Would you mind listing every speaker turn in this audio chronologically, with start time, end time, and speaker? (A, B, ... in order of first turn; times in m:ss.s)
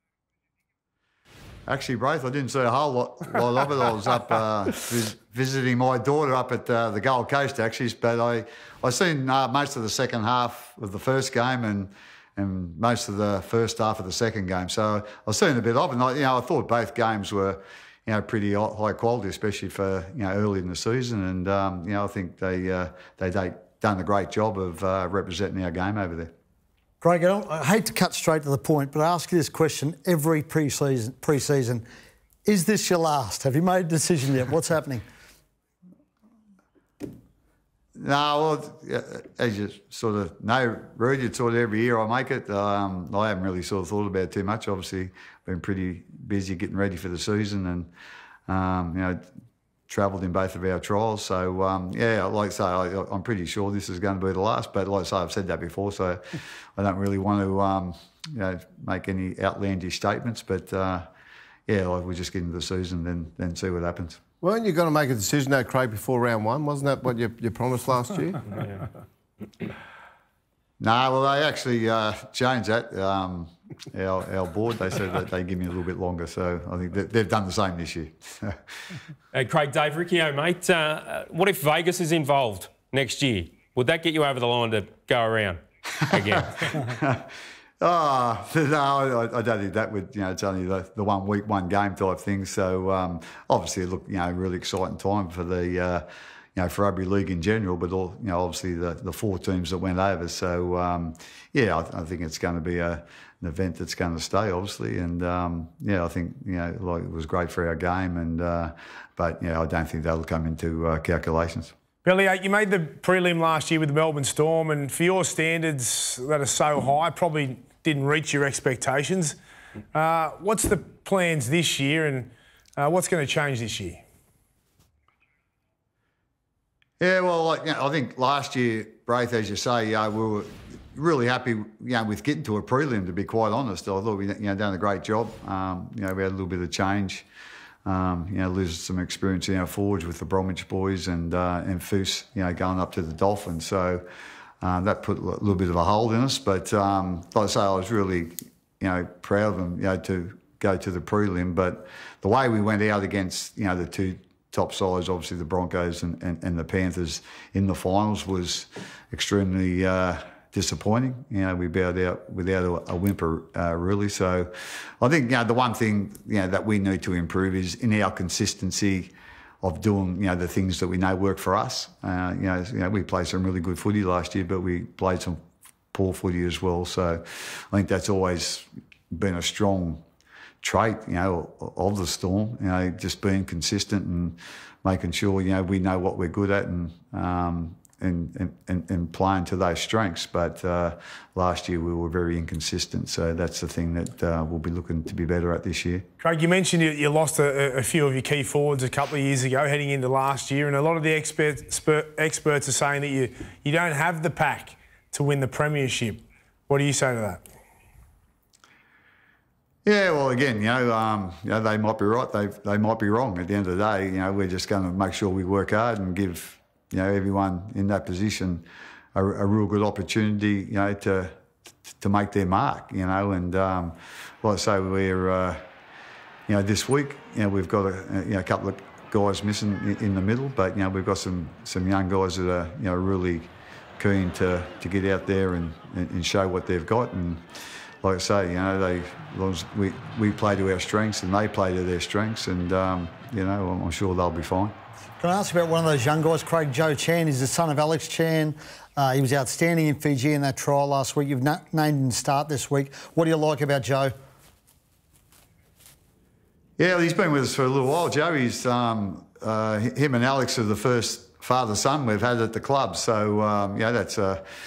0:01.7-0:26.3 A
0:27.0-0:31.8 B
0:32.4-0:35.0 B
0:38.0-0:47.9 A
0:48.5-0:49.2 A
0:49.9-0:56.2 A
0:56.8-1:01.1 A
1:01.7-1:04.2 A
1:04.4-1:08.6 C
1:10.8-1:18.6 A
1:19.3-1:26.8 D
1:26.6-1:27.3 A
1:27.8-1:51.7 A
1:52.0-1:59.4 E
1:59.9-2:04.0 E
2:07.0-2:17.3 A
2:17.8-2:24.0 A
2:24.6-2:55.4 A
2:55.9-3:00.0 A
3:00.6-3:16.0 A
3:16.2-3:27.4 E
3:29.8-3:38.6 A
3:39.2-3:41.3 A
3:42.0-3:45.6 A
3:46.5-3:57.4 A
3:58.0-4:04.7 A
4:05.2-4:14.1 B
4:16.8-4:24.4 A